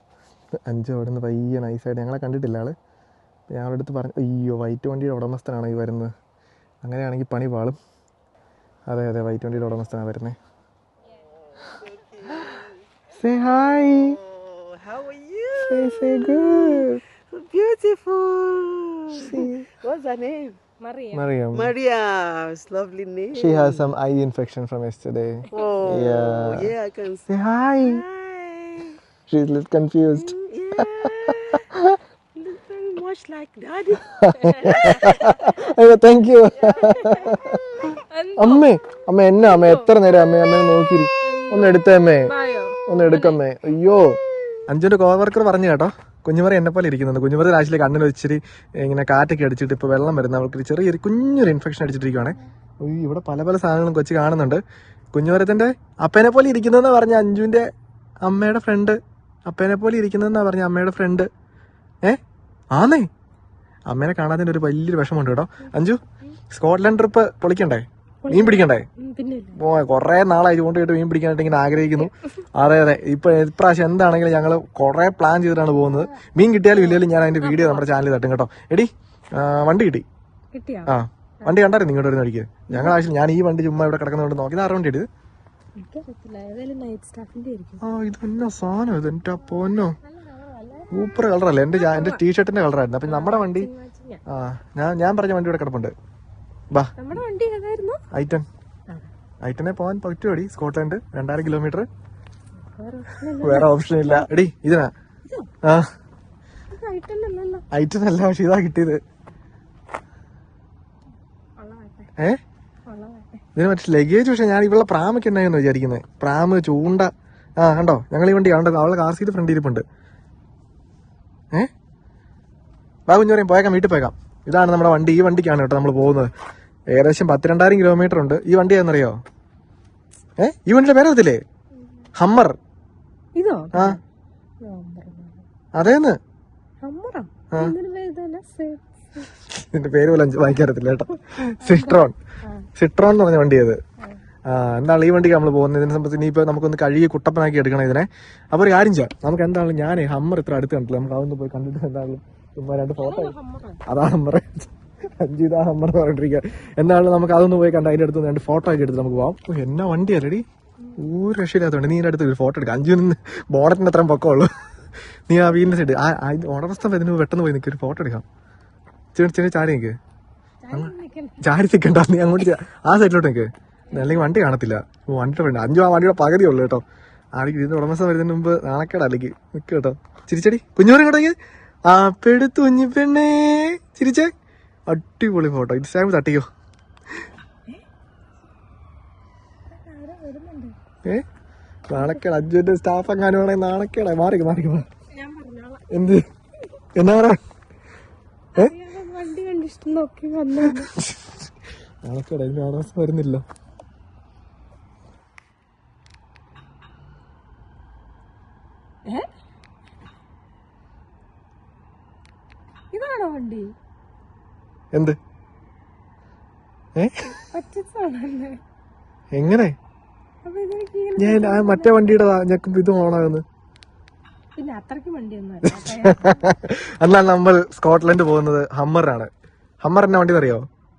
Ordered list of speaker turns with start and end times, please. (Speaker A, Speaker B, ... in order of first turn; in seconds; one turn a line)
Speaker A: 0.7-2.8
Speaker A: 3.5-6.1
Speaker A: 6.8-7.8
Speaker A: 8.9-10.4
Speaker B: 11.6-12.7
Speaker A: 13.2-14.2
Speaker B: 13.6-20.6
Speaker A: 15.6-17.0
Speaker A: 19.1-19.7
Speaker C: 20.8-21.4
Speaker A: 21.1-21.7
Speaker B: 21.5-23.9
Speaker A: 23.3-26.7
Speaker B: 25.5-27.3
Speaker C: 25.5-25.8
Speaker A: 27.3-28.0
Speaker B: 27.8-29.0
Speaker A: 29.3-32.0
Speaker B: 30.2-31.7
Speaker B: 32.4-34.8
Speaker C: 33.9-35.8
Speaker A: 34.2-42.3
Speaker C: 36.6-38.8
Speaker C: 39.4-39.9
Speaker C: 41.2-43.4
Speaker A: 42.9-54.6
Speaker A: 55.1-57.7
Speaker A: 58.2-61.3
Speaker A: 62.7-63.1
Speaker A: 63.9-66.0
Speaker A: 66.5-68.8
Speaker C: 68.2-69.6
Speaker A: 69.5-80.0
Speaker C: 76.7-77.9
Speaker C: 80.5-81.7
Speaker A: 80.9-85.1
Speaker C: 82.7-83.0
Speaker C: 85.8-87.8
Speaker A: 87.8-90.0
Speaker C: 90.0-92.2
Speaker A: 90.9-93.7
Speaker C: 93.0-94.2
Speaker A: 94.3-95.9
Speaker C: 97.0-98.0
Speaker A: 98.1-98.5
Speaker A: 99.4-101.9
Speaker C: 102.7-104.3
Speaker A: 103.3-104.9
Speaker A: 105.6-105.9
Speaker C: 106.7-107.6
Speaker A: 107.7-109.0
Speaker C: 111.6-112.1
Speaker C: 112.8-113.4
Speaker A: 113.5-119.8
Speaker A: 123.1-126.3
Speaker A: 126.9-129.2
Speaker A: 130.4-131.4
Speaker A: 132.2-132.6
Speaker C: 133.3-134.0
Speaker A: 133.7-134.0
Speaker C: 134.6-135.4
Speaker A: 135.8-136.2
Speaker C: 136.8-139.3
Speaker A: 137.5-137.8
Speaker A: 139.4-142.1
Speaker C: 141.6-142.7
Speaker A: 142.8-143.8
Speaker A: 144.5-160.4
Speaker C: 153.0-153.8
Speaker A: 161.0-164.5
Speaker A: 165.3-168.2
Speaker A: 169.1-169.9
Speaker C: 170.6-171.6
Speaker A: 170.7-176.8
Speaker A: 177.3-181.3
Speaker A: 181.9-184.3
Speaker A: 184.9-186.4
Speaker C: 189.7-190.7
Speaker A: 191.9-194.8
Speaker C: 195.1-195.9
Speaker A: 195.9-196.2
Speaker A: 196.9-197.4
Speaker C: 198.5-200.9
Speaker A: 200.6-201.3
Speaker A: 202.0-203.4
Speaker C: 212.9-213.7
Speaker A: 216.9-217.2
Speaker C: 217.3-218.6
Speaker A: 219.3-219.7
Speaker C: 220.4-222.2
Speaker A: 221.2-223.4
Speaker C: 224.6-226.5
Speaker A: 225.7-229.3
Speaker A: 229.8-230.7